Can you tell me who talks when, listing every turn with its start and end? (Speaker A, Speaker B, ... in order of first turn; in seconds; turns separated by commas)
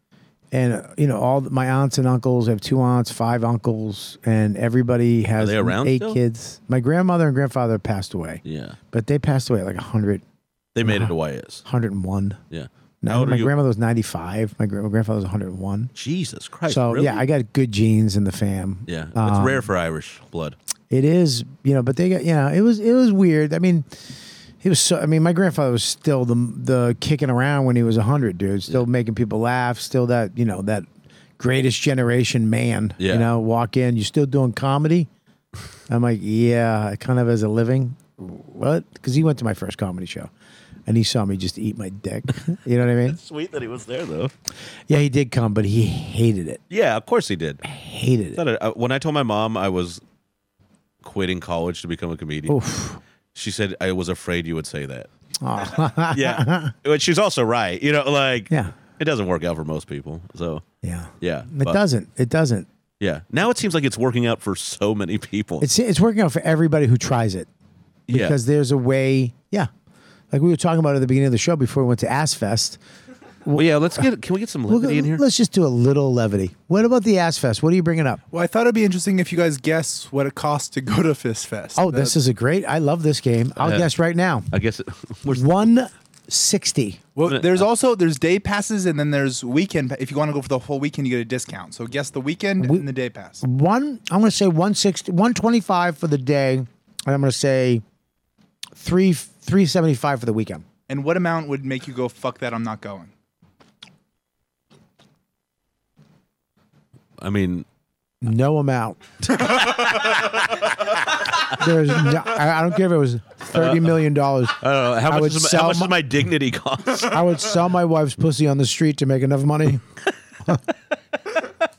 Speaker A: 0.5-10.2, Speaker B: 5.4-6.2, Speaker B: 8.4-8.8, Speaker B: 10.8-11.6, Speaker A: 10.8-11.1, Speaker A: 11.7-12.4, Speaker B: 12.5-13.5, Speaker A: 13.0-15.9, Speaker B: 16.0-17.2, Speaker A: 16.7-19.7, Speaker B: 18.9-20.6, Speaker A: 20.9-23.9, Speaker A: 24.6-30.9, Speaker A: 31.4-35.1, Speaker B: 33.0-33.3, Speaker A: 35.9-40.3, Speaker A: 40.9-43.2, Speaker B: 43.1-44.3, Speaker A: 44.9-46.6, Speaker B: 46.7-47.6, Speaker A: 47.6-48.4, Speaker B: 48.4-50.0, Speaker B: 51.0-52.6, Speaker A: 52.5-53.0, Speaker B: 53.4-55.1, Speaker A: 55.4-56.7, Speaker B: 56.1-60.6, Speaker A: 60.8-62.7, Speaker B: 61.2-61.8, Speaker B: 63.0-65.7, Speaker A: 65.6-67.5, Speaker B: 68.1-68.4, Speaker A: 68.1-69.7, Speaker A: 70.3-72.8, Speaker A: 73.5-74.1, Speaker B: 73.5-75.2, Speaker A: 74.7-78.2, Speaker C: 78.3-82.2, Speaker A: 81.8-84.5, Speaker B: 83.6-83.9, Speaker B: 84.5-85.5, Speaker A: 85.3-87.0, Speaker C: 87.2-93.4, Speaker B: 87.3-87.7, Speaker A: 92.6-92.9, Speaker A: 93.4-97.8, Speaker A: 98.8-100.7, Speaker C: 100.9-103.1, Speaker B: 107.2-107.7, Speaker A: 108.2-109.0, Speaker B: 109.3-111.0, Speaker A: 111.5-116.0, Speaker B: 113.5-114.0, Speaker B: 114.6-117.3, Speaker A: 117.0-119.8